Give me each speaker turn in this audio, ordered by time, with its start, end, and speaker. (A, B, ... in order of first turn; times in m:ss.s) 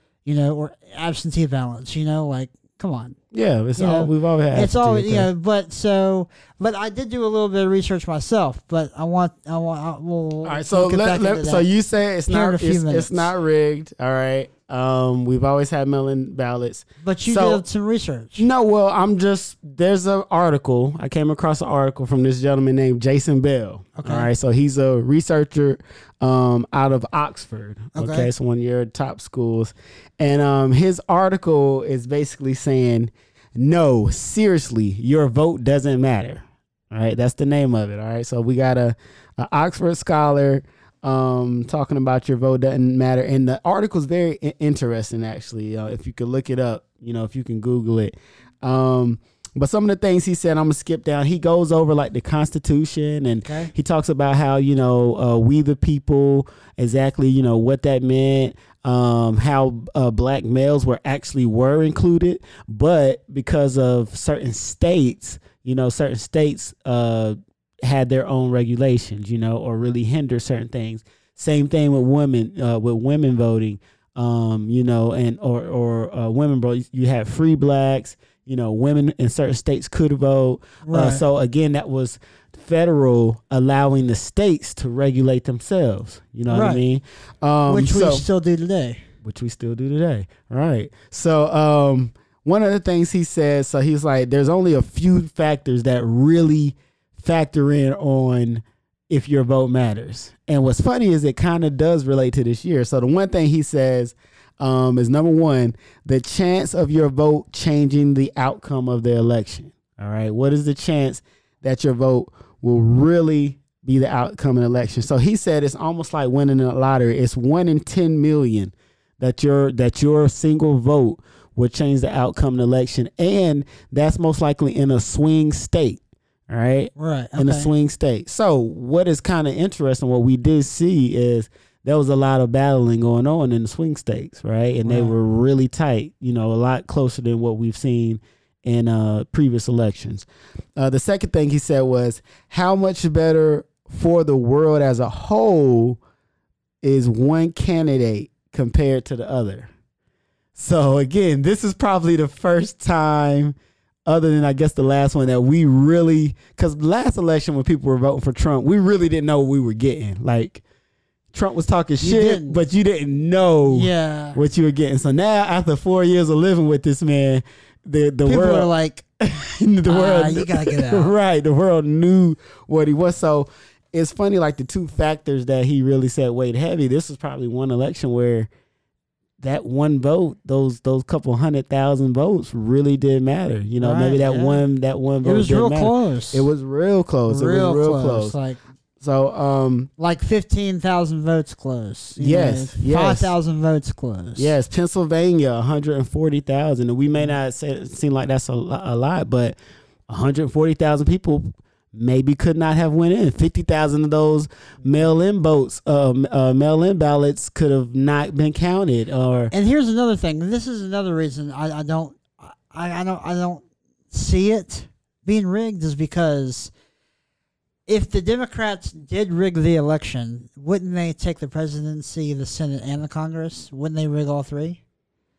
0:00.2-0:03.2 A
0:03.3-0:05.3 B
0:03.8-0:11.7 A
0:10.4-0:17.6 B
0:12.3-0:13.3 A
0:17.0-0:18.5 A
0:18.4-1:28.2 B
0:24.0-0:24.3 A
0:27.9-0:28.3 A
0:53.4-0:53.7 A
1:20.8-1:21.2 A
1:26.5-1:26.8 A
1:27.7-1:29.0 A
1:29.2-2:26.0 B
2:07.0-2:07.7 A
2:14.8-2:15.2 A
2:26.8-2:29.7 B
2:30.6-2:40.6 B
2:41.3-2:58.5 B
2:42.0-2:42.6 A
2:43.7-2:44.4 A
2:48.2-2:49.0 A
2:49.9-2:51.1 A
2:59.4-3:08.4 B
3:03.8-3:04.6 A
3:05.2-3:06.5 A
3:07.3-3:08.6 A
3:09.0-3:09.9 B
3:10.0-3:14.6 A
3:12.2-3:13.3 B
3:14.4-3:19.6 B
3:20.1-3:29.5 B
3:29.5-3:36.7 A
3:37.9-3:44.8 A